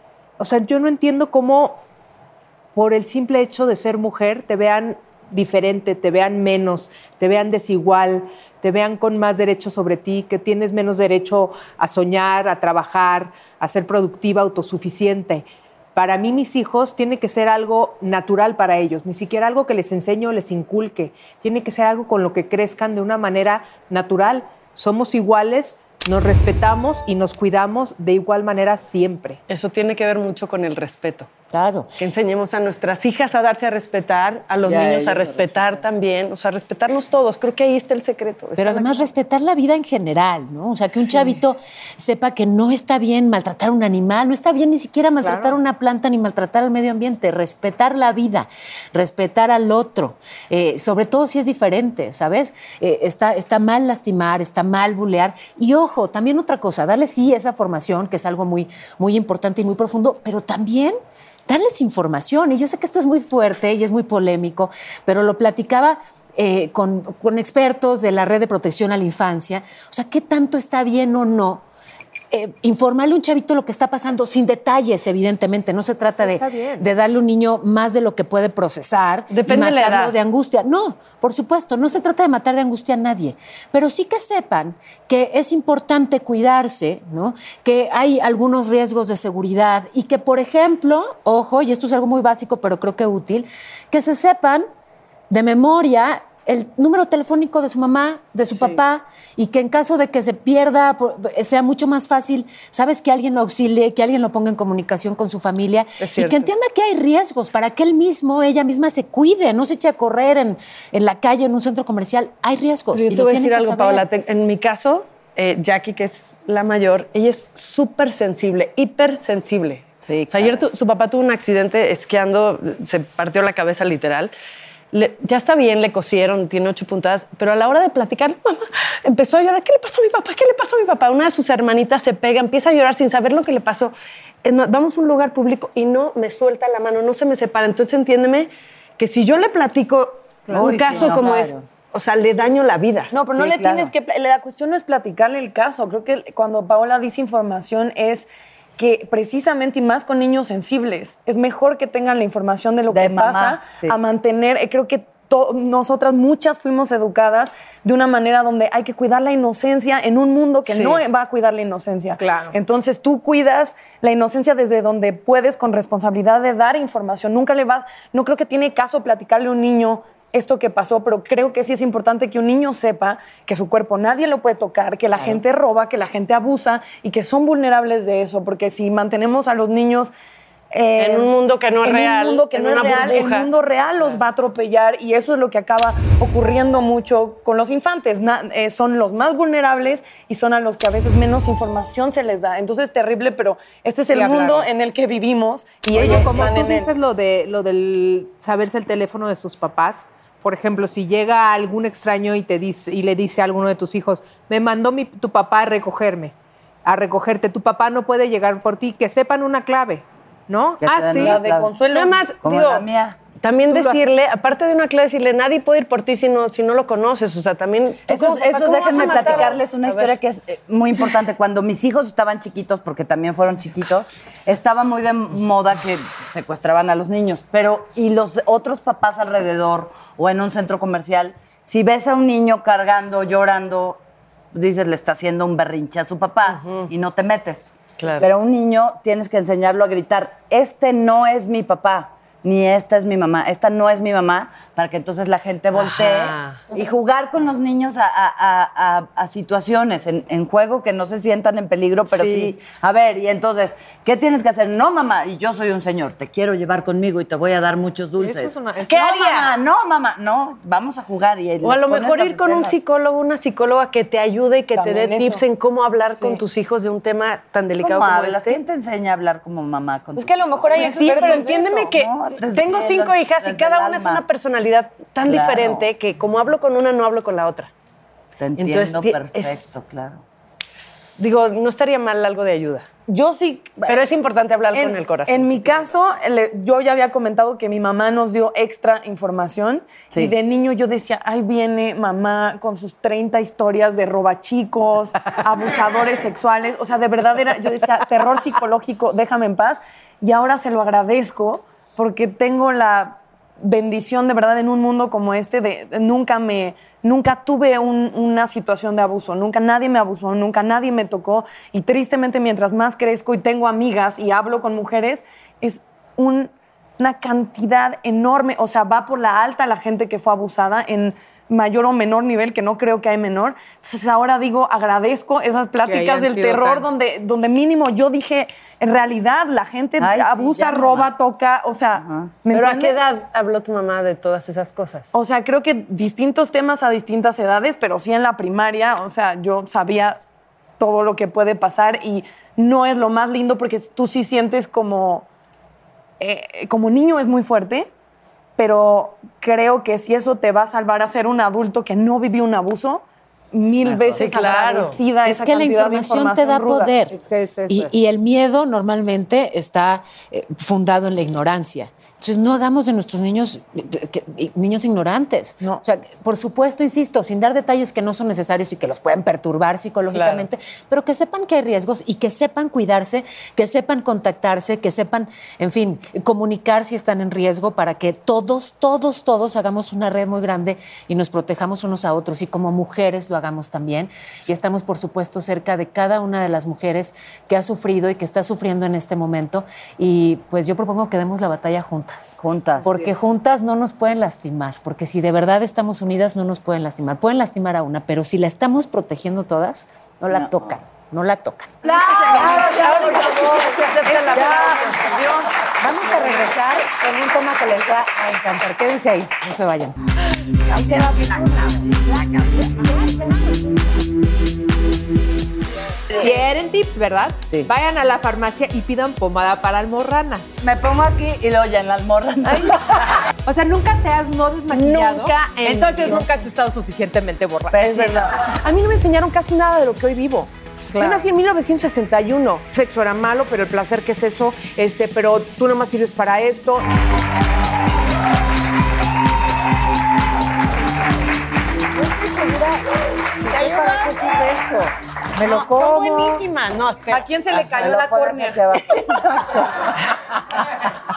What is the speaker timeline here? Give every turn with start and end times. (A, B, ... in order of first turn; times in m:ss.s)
0:00.4-0:01.8 A
0:02.8-0:29.4 A
0:29.5-0:31.3 B
0:31.5-0:31.9 C
0:32.0-0:39.1 B
0:34.7-0:35.8 D
0:38.6-1:11.6 C
0:45.2-0:45.6 A
1:12.3-1:34.7 C
1:16.2-1:16.9 A
1:19.3-1:20.1 B
1:35.3-1:54.0 C
1:38.5-1:38.8 B
1:46.0-1:46.5 B
1:52.9-2:04.3 B
2:00.1-2:00.5 D
2:04.9-2:23.1 B
2:20.5-2:21.6 D
2:20.9-2:21.2 C
2:23.1-2:28.3 E
2:23.4-2:23.9 D
2:28.8-3:00.1 E
2:32.9-2:33.6 D
2:40.7-2:41.0 B
2:42.2-2:42.6 A
3:00.7-3:16.9 E
3:01.0-3:03.5 B
3:14.1-3:14.7 A
3:15.9-3:26.3 A
3:26.8-3:31.4 A
3:30.8-3:31.8 D
3:31.1-3:32.2 E
3:31.9-3:32.8 B
3:32.4-3:33.2 D
3:33.4-3:40.1 B
3:33.7-3:34.0 A
3:38.1-3:54.0 D
3:54.5-4:22.8 D
3:56.5-3:56.9 B
3:58.0-3:58.3 B
4:05.8-4:06.6 B
4:12.1-4:12.5 B
4:18.2-4:19.5 A
4:21.6-4:28.6 B
4:24.8-4:25.4 E
4:27.8-4:34.2 D
4:30.2-4:31.5 E
4:30.8-4:37.7 B
4:35.2-4:35.9 D
4:38.4-4:40.2 D
4:38.6-4:39.6 B
4:41.2-4:42.9 B
4:43.1-4:44.0 E
4:43.9-4:45.9 B
4:44.7-5:33.0 E
5:25.8-5:26.9 A
5:30.0-5:31.1 D
5:32.0-5:32.3 D
5:32.5-5:35.1 B
5:35.1-5:40.2 E
5:40.8-5:45.3 E
5:46.2-5:47.9 E
5:48.6-5:57.0 E
5:54.1-5:55.0 B
5:55.2-5:57.2 C
5:57.1-5:57.9 A
5:57.7-6:43.3 C
6:10.1-6:10.4 B
6:32.4-6:33.0 D
6:41.8-6:45.4 E
6:42.1-6:45.2 B
6:44.1-6:44.6 A
6:44.3-6:44.7 C
6:45.8-6:50.0 C
6:50.7-6:52.0 C
6:56.1-7:00.6 A
7:00.6-7:03.2 D
7:02.5-7:08.3 A
7:04.7-7:05.9 B
7:07.7-7:08.4 D
7:08.5-7:16.9 F
7:10.9-7:11.3 A
7:22.0-7:22.8 C
7:23.4-7:26.5 C
7:23.5-7:24.2 B
7:25.4-7:27.3 B
7:27.1-7:28.7 E
7:27.5-7:29.2 D
7:28.9-7:30.1 C